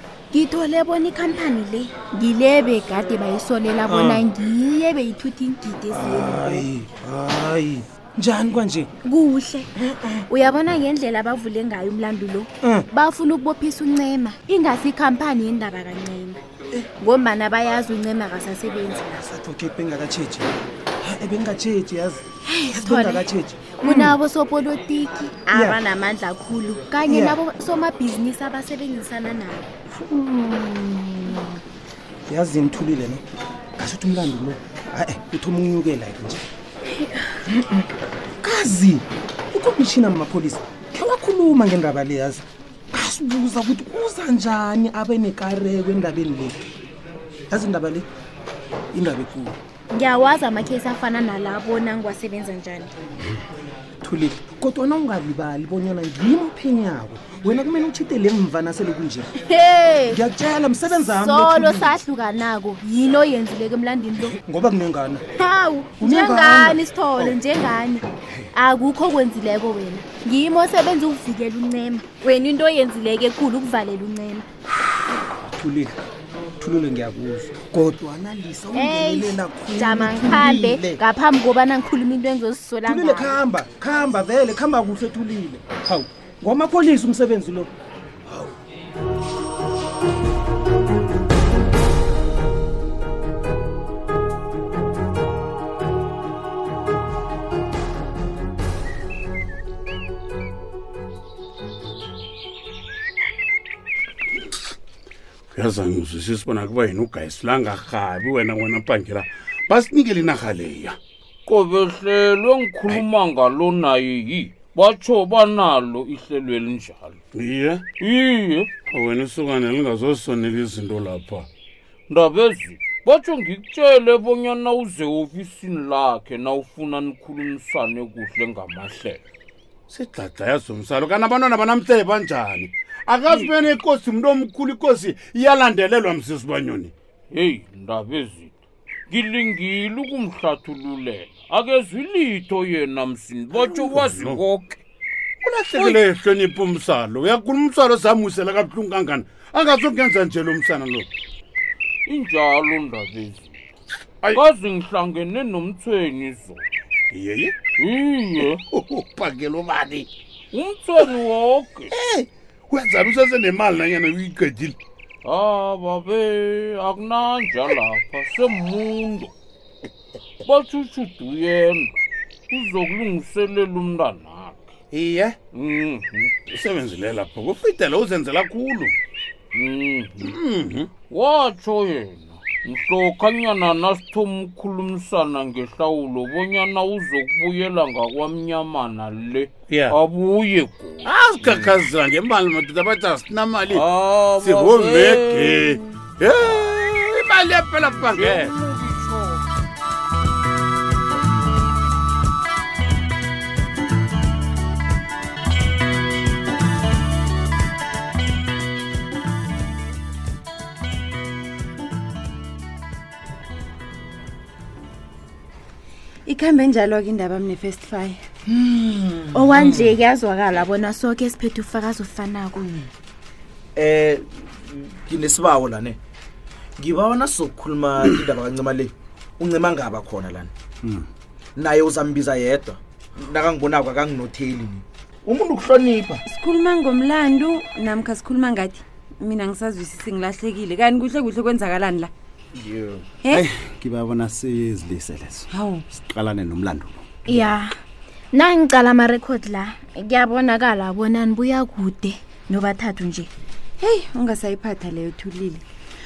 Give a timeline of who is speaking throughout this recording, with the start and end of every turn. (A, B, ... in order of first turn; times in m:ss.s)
0:00.3-0:06.7 A
0:03.8-0:04.3 B
0:05.9-0:08.9 B
0:09.0-0:09.7 A
0:09.8-0:10.2 B
0:10.3-0:16.4 A
0:17.0-0:19.2 A
0:19.2-0:20.5 B
0:21.0-0:24.2 B
0:22.4-0:29.8 A
0:25.5-0:25.8 B
0:27.1-0:27.4 B
0:29.9-0:31.5 B
0:32.2-0:33.2 B
0:33.8-0:36.4 B
0:37.0-0:37.4 A
0:38.4-0:46.6 B
0:47.5-0:48.1 B
0:48.9-0:49.6 B
0:49.9-0:52.9 A
0:54.0-0:59.3 B
0:59.4-1:00.2 A
1:00.1-1:02.0 B
1:01.2-1:04.4 A
1:04.2-1:05.2 B
1:05.3-1:14.4 A
1:06.0-1:07.4 B
1:15.4-1:16.0 B
1:16.6-1:21.0 B
1:18.7-1:23.4 A
1:22.9-1:27.7 B
1:28.3-1:28.5 B
1:45.5-1:51.0 C
1:51.4-1:57.2 D
1:57.3-1:57.8 C
1:58.0-1:58.7 D
1:58.9-2:01.5 C
2:02.1-2:09.2 D
2:09.9-2:16.9 C
2:17.3-2:24.8 D
2:23.7-2:24.4 C
2:25.4-2:31.1 C
2:25.7-2:26.0 D
2:32.0-2:33.6 D
2:34.3-2:36.6 D
2:37.1-2:37.5 C
2:37.8-2:38.6 D
2:38.7-2:40.1 C
2:40.5-2:41.9 D
2:42.0-2:44.8 C
2:45.2-2:49.3 D
2:50.4-2:52.0 D
2:52.5-2:54.7 D
2:54.9-2:55.4 C
2:55.5-2:56.3 D
2:56.5-2:58.9 C
2:59.5-3:00.3 D
3:00.2-3:00.9 C
3:01.0-3:11.8 D
3:09.7-3:09.9 C
3:11.0-3:13.8 C
3:13.7-3:16.0 D
3:14.4-3:18.5 C
3:18.0-3:19.4 D
3:36.2-3:38.2 E
3:38.4-3:40.0 F
3:39.3-3:42.9 A
3:43.8-3:46.0 F
3:46.8-3:50.5 F
3:50.8-3:51.1 G
3:51.6-3:56.2 F
3:56.2-4:02.1 E
4:02.6-4:03.0 F
4:03.3-4:07.3 G
4:05.5-4:05.8 E
4:07.3-4:07.8 A
4:08.3-4:13.3 A
4:13.8-4:15.6 E